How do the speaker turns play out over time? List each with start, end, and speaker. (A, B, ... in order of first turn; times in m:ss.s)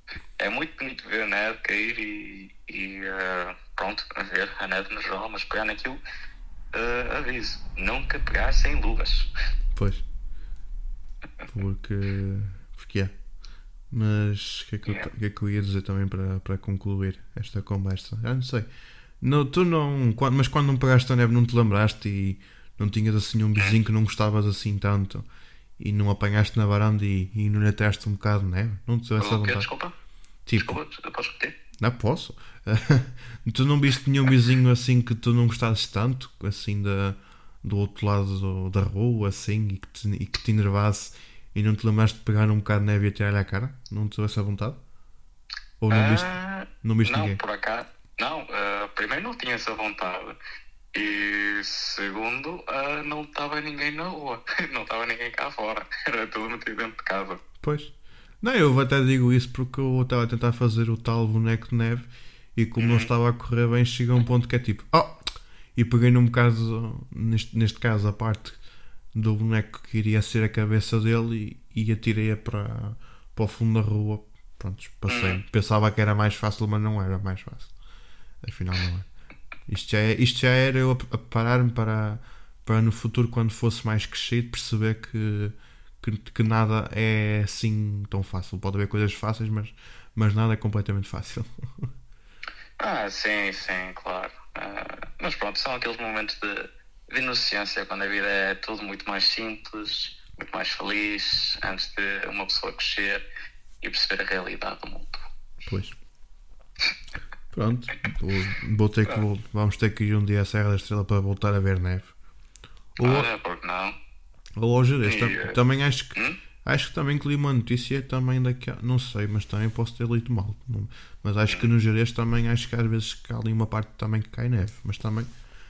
0:00.4-0:06.0 A
0:06.7-0:09.3 A
0:09.7-0:10.0 B
0:11.5-0:13.1 B
0:13.9-0:18.7 B
0:19.2-0:25.2 B
0:25.8-0:29.7 B
0:29.2-0:29.9 A
0:30.4-0:30.8 B
0:30.6-0:31.6 A
0:31.8-0:44.8 B
0:45.8-0:46.3 B
0:45.9-0:50.4 A
0:46.8-0:47.4 B
0:50.9-0:57.4 A
0:57.6-1:05.2 B
1:02.8-1:03.1 A
1:05.7-1:08.6 B
1:09.1-1:17.7 B
1:15.1-1:15.4 A
1:18.4-1:19.0 B
1:19.7-1:31.8 B
1:32.8-1:43.2 A
1:43.8-1:45.2 A
1:45.6-1:45.9 B
1:47.5-1:52.1 B
1:53.0-1:53.3 B
1:53.0-1:54.0 A
1:54.6-2:05.3 B
1:55.0-1:55.6 A